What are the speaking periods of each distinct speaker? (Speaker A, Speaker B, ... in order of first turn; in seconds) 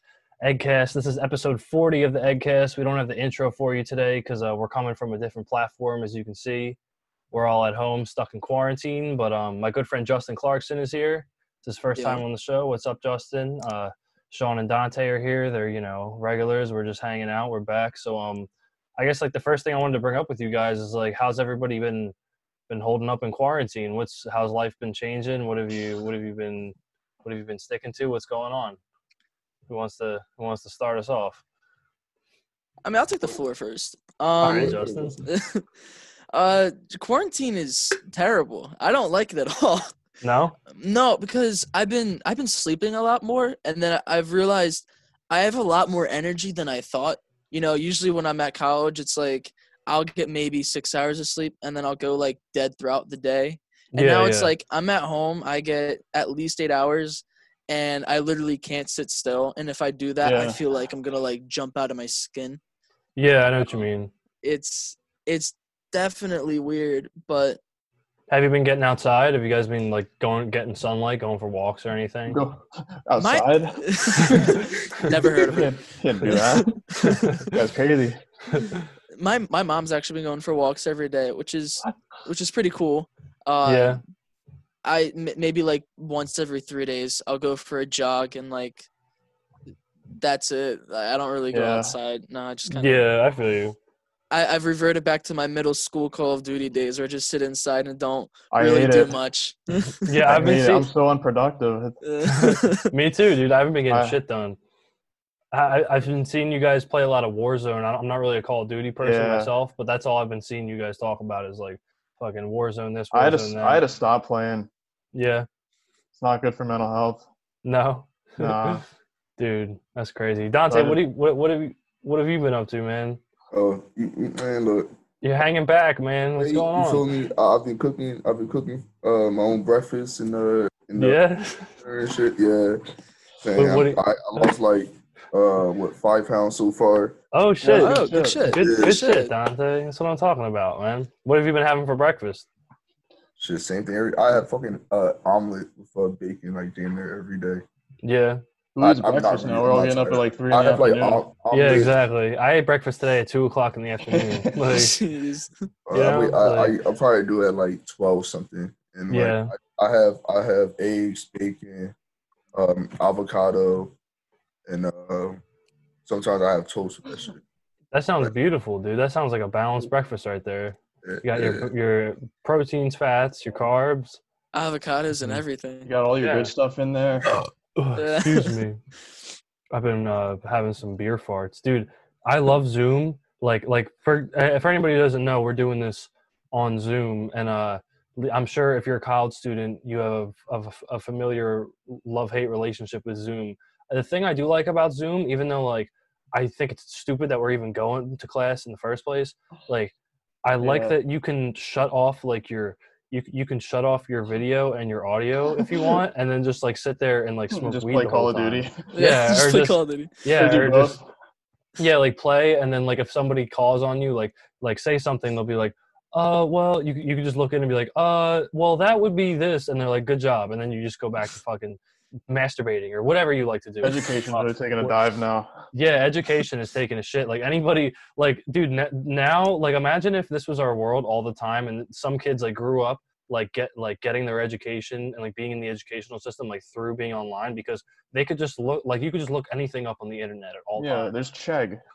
Speaker A: 0.4-6.8, 7.3-22.1, 22.7-28.8, 29.7-31.4, 34.4-35.2, 40.2-40.5, 53.9-54.5, 63.2-64.1, 68.3-72.4, 77.0-77.4, 78.5-78.8, 83.7-84.0, 92.7-93.8, 100.0-100.9, 102.3-104.6, 105.5-113.8, 115.1-115.5, 117.6-118.8, 119.4-123.2, 125.2-127.0, 131.0-131.7, 133.6-134.5, 137.3-142.5, 148.0-148.4, 151.5-155.0, 155.9-156.7, 159.1-159.5, 167.9-174.2, 176.2-176.5, 177.8-178.8, 179.7-211.0, 211.8-225.0, 225.7-241.1
Speaker B: 12.0-12.2, 32.8-35.6, 36.3-39.9, 40.7-62.6, 64.4-67.6, 73.2-77.5, 79.2-84.0, 84.8-88.9, 90.2-93.0, 94.3-100.2, 102.0-102.9, 137.8-139.3, 154.7-155.6, 174.5-175.9, 178.0-178.5, 208.9-210.1
Speaker C: 34.4-35.1, 60.2-60.6, 72.3-74.6, 75.2-76.8, 77.5-78.2, 91.5-92.0, 98.5-99.2, 100.3-102.0, 103.9-104.2, 109.0-109.5, 113.1-114.7, 116.2-117.2, 118.4-118.8, 120.7-121.0, 137.6-138.4, 148.8-151.2, 175.8-177.3, 200.6-200.9, 207.5-208.8, 210.3-211.0, 223.8-225.5, 240.8-241.8
Speaker D: 123.5-124.9, 126.4-131.2, 131.8-132.8, 133.4-137.2, 138.5-139.0, 143.4-147.7, 148.8-151.9, 155.9-161.9, 162.5-163.9, 164.7-165.4, 166.1-167.4, 171.0-171.7